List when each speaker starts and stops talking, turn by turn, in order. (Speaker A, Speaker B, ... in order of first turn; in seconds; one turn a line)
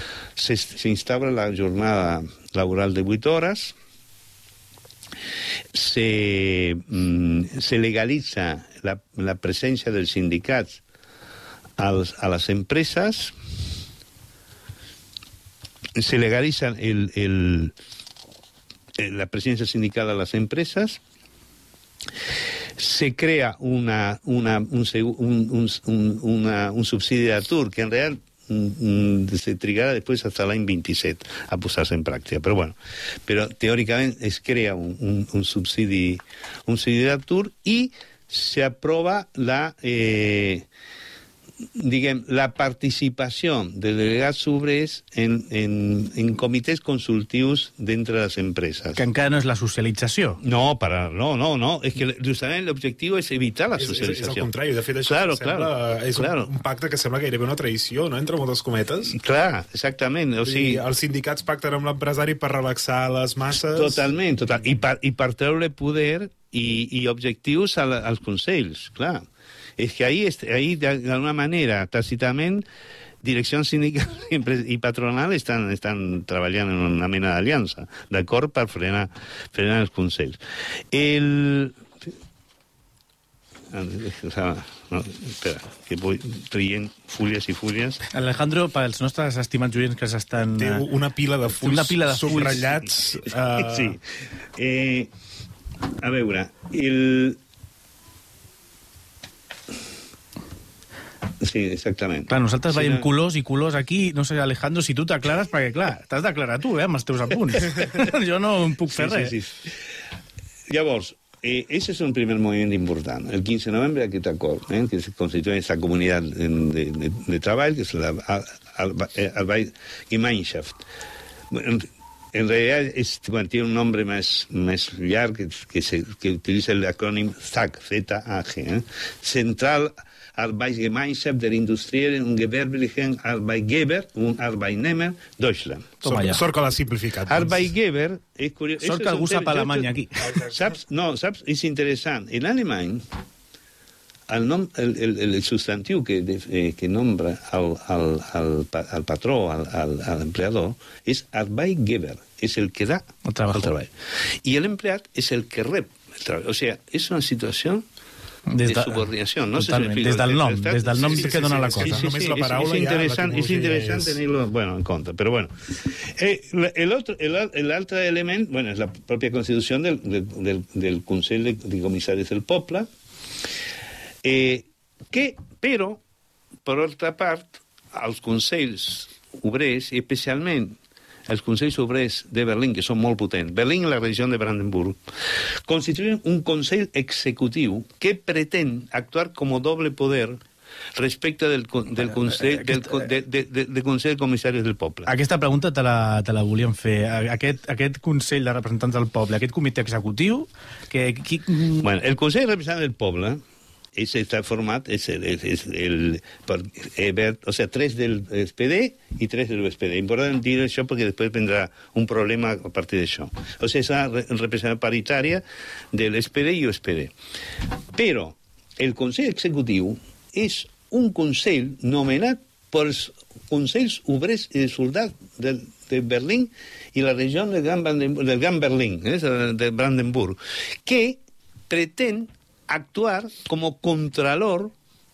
Speaker A: 0.4-3.8
Speaker A: 5.7-10.8
Speaker A: 11.8-13.3
Speaker A: 16.0-17.7
Speaker A: 19.0-21.0
Speaker A: 22.8-40.7
Speaker A: 41.8-49.0
Speaker B: 49.0-50.4
Speaker A: 50.4-54.5
Speaker C: 53.8-59.1
Speaker A: 55.0-56.5
Speaker A: 59.1-60.8
Speaker C: 60.4-64.1
Speaker A: 63.7-69.2
Speaker A: 69.8-72.7
Speaker A: 73.2-80.4
Speaker A: 80.9-81.8
Speaker A: 83.7-88.0
Speaker B: 88.1-90.8
Speaker C: 90.6-94.0
Speaker B: 91.5-92.8
Speaker A: 93.5-94.0
Speaker A: 94.5-95.1
Speaker A: 96.0-97.4
Speaker A: 101.4-103.1
Speaker B: 102.3-109.3
Speaker A: 108.9-109.7
Speaker A: 110.7-120.8
Speaker A: 121.5-136.0
Speaker B: 136.0-136.4
Speaker C: 136.0-137.6
Speaker A: 137.3-143.0
Speaker B: 138.8-140.4
Speaker A: 144.3-153.9
Speaker B: 153.3-153.7
Speaker A: 154.4-157.8
Speaker B: 158.5-162.1
Speaker A: 158.7-172.9
Speaker C: 161.0-164.2
Speaker A: 174.2-176.0
Speaker A: 176.7-185.0
Speaker A: 185.7-190.4
Speaker A: 191.0-195.1
Speaker B: 195.1-201.9
Speaker A: 201.8-203.4
Speaker A: 203.9-217.1
Speaker A: 217.9-234.7